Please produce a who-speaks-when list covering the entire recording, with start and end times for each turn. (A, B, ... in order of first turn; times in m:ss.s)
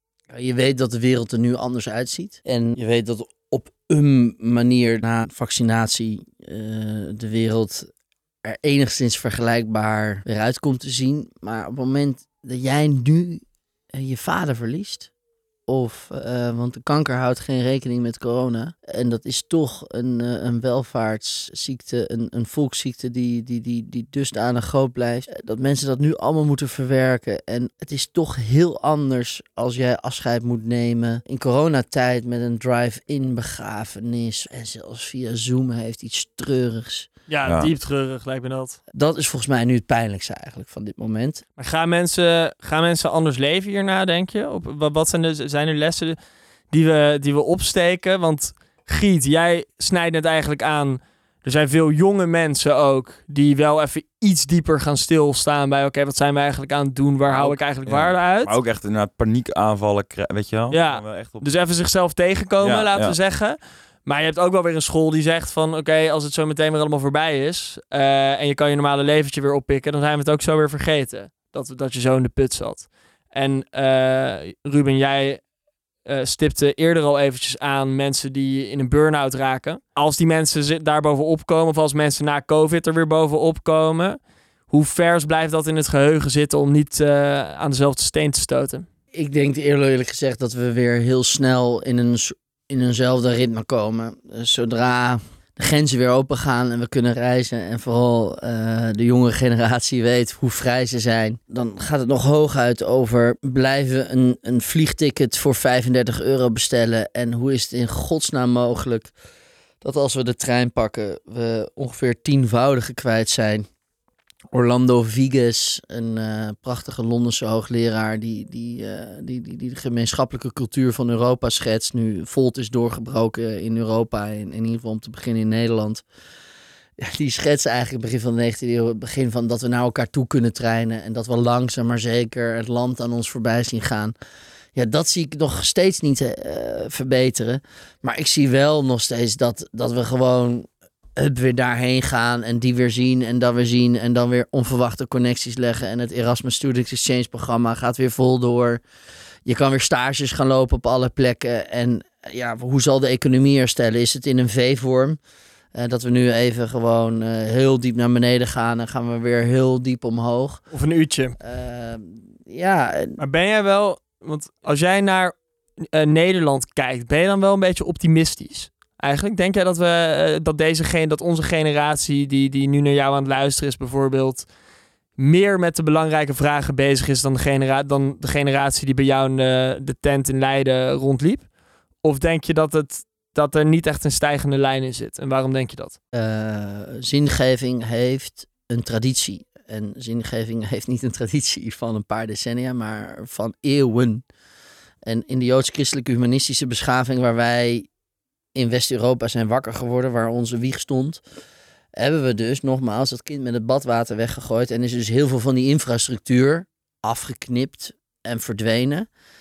0:00.3-0:07.9 A
0:08.4-0:13.4 A
0:13.9-0:15.1 A
0:15.7-0:37.1 A
0:37.3-0:38.8 B
0:37.5-0:37.7 C
0:38.9-0:41.4 A
0:41.6-0:46.2 B
0:46.7-0:58.5 B
0:57.3-1:01.5 C
1:00.7-1:15.5 B
1:02.6-1:03.2 C
1:16.0-1:28.9 B
1:29.1-1:49.1 A
1:49.8-1:53.7 A
1:54.5-2:06.0 A
2:07.0-2:14.1 A
2:14.8-2:28.8 A
2:29.5-2:35.2 A
2:35.7-2:40.6 A
2:40.7-2:41.4 B
2:41.4-2:43.2 A
2:43.2-2:54.5 B
2:55.2-3:01.5 B
3:02.0-3:06.0 B
3:06.1-3:14.2 A
3:15.0-3:17.9 A
3:18.6-3:21.2 A
3:21.9-3:29.1 A